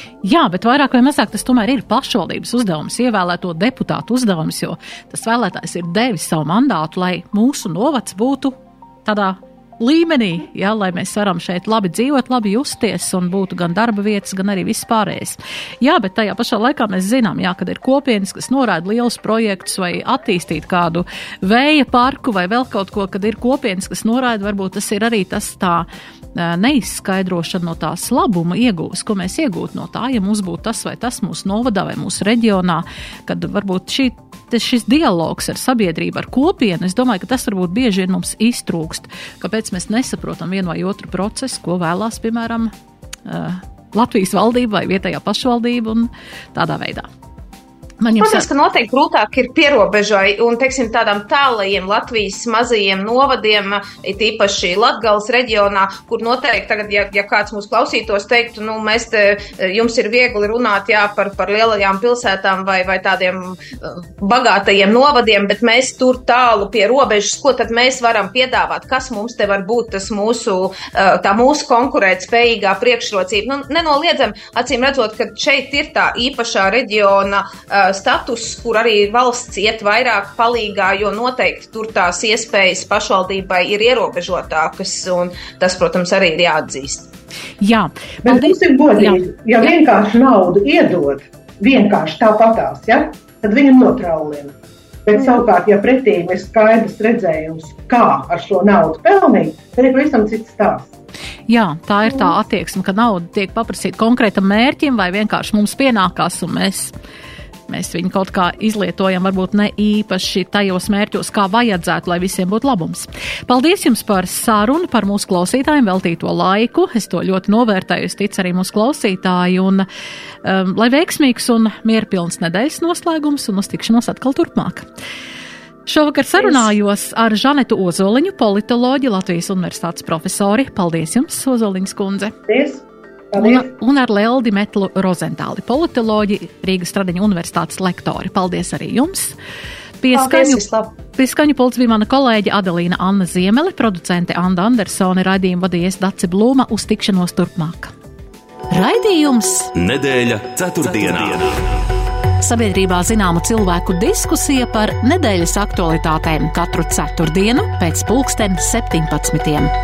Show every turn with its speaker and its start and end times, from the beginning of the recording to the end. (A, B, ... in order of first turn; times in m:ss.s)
0:00.2-0:42.7 A
0:43.3-0:47.1 A
0:48.0-0:48.5 A
0:48.2-1:27.1 B
1:27.6-1:29.2 A
1:28.2-1:40.9 C
1:41.5-1:46.9 A
1:47.7-1:59.9 A
2:00.4-2:04.9 A
2:05.9-2:12.4 A
2:12.5-2:13.7 C
2:13.4-2:19.4 A
2:20.0-2:27.9 A
2:20.2-2:20.9 B
2:28.7-2:29.7 A
2:29.7-2:31.7 D
2:32.4-2:39.7 A